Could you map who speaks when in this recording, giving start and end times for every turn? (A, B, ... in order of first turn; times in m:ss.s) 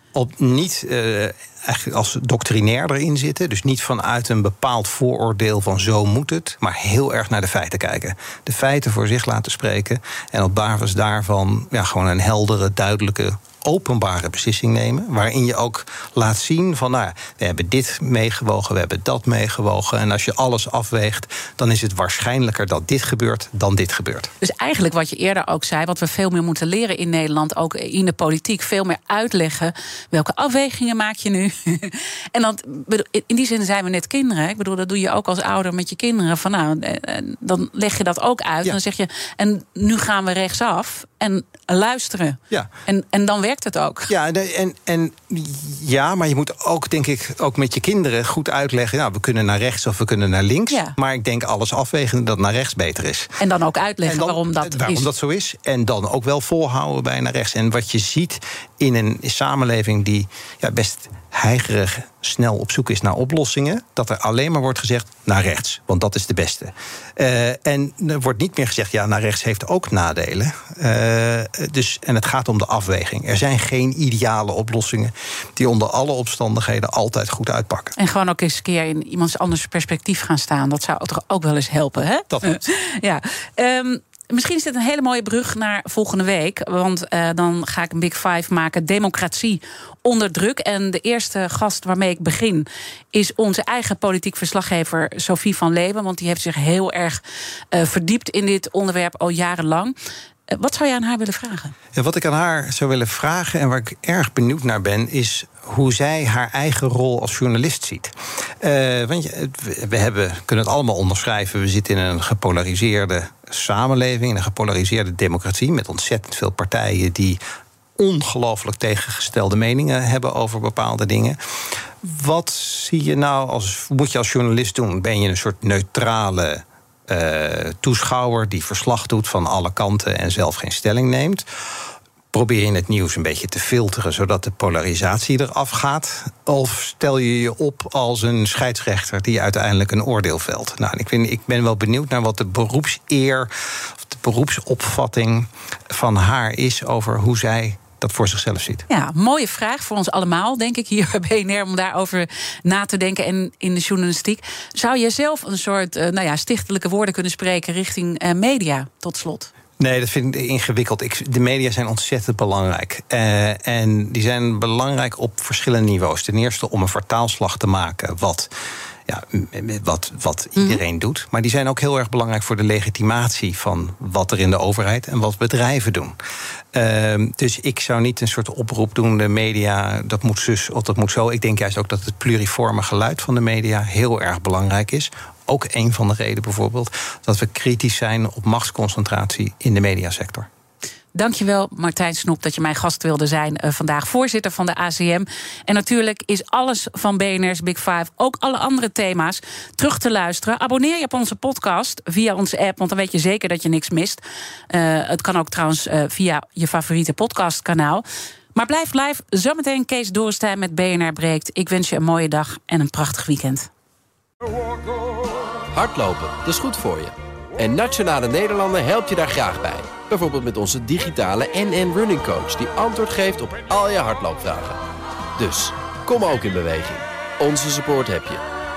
0:00.1-0:24.3 A
0:24.4-0:44.1 B
0:44.1-0:53.4 A
0:50.7-0:51.0 B
0:53.4-0:55.1 B
0:54.0-1:17.9 A
1:18.0-1:37.2 B
1:22.3-1:22.6 A
1:37.7-1:39.9 B
1:40.5-1:41.7 B
1:41.9-1:57.4 A
1:58.0-2:01.4 A
2:02.0-2:11.4 A
2:12.3-2:28.9 A
2:28.9-2:39.5 B
2:39.8-2:48.5 A
2:49.1-2:56.2 A
2:50.6-2:50.8 B
2:56.7-3:10.5 A
3:11.2-3:33.7 B
3:35.7-3:44.8 C
3:45.4-3:48.4 C